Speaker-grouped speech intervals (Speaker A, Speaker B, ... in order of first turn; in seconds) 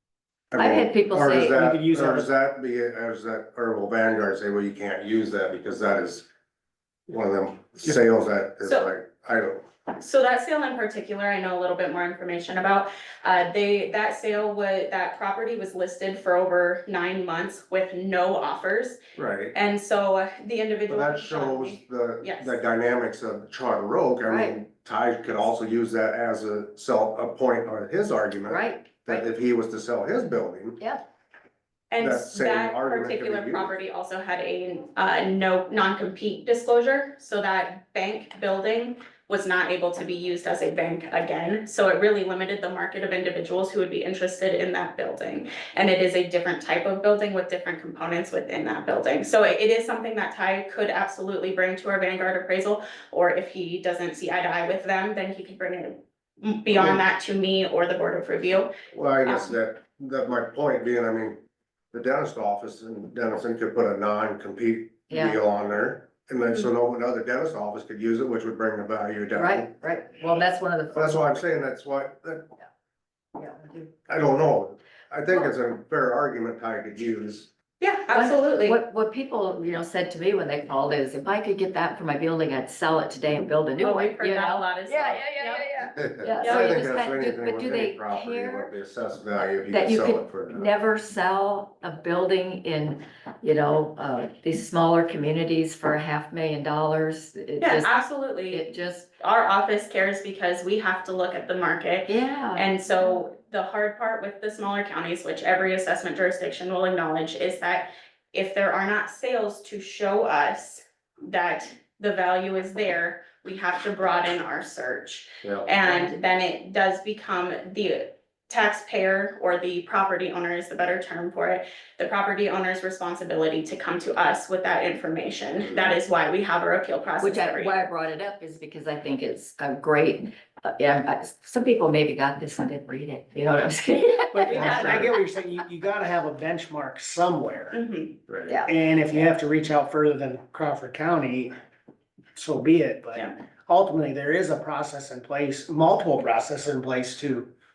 Speaker A: 0.5-6.3, 7.1-9.7, 19.2-19.6, 20.9-30.8, 32.0-33.7, 56.7-57.0, 58.9-61.4, 61.9-69.8, 70.9-72.6, 74.1-77.5, 86.0-90.7, 115.4-115.7, 125.6-126.0, 134.6-135.1, 138.3-138.5
Speaker B: 0.6-1.6, 24.3-24.6, 28.5-29.3, 65.1-65.4, 69.3-71.6, 73.4-73.9, 78.1-88.7, 89.6-97.9, 98.5-99.1, 102.1-102.7, 115.8-116.2, 127.2-135.1, 138.5-139.3
Speaker C: 1.4-2.3, 134.3-137.8, 138.7-141.5, 142.3-147.5
Speaker D: 8.7-8.9, 10.0-19.0, 19.5-22.6, 31.9-58.7, 59.2-59.5, 77.8-78.8, 83.8-85.8, 86.4-86.7, 97.6-98.7, 99.2-127.8, 134.5-135.0, 137.7-138.2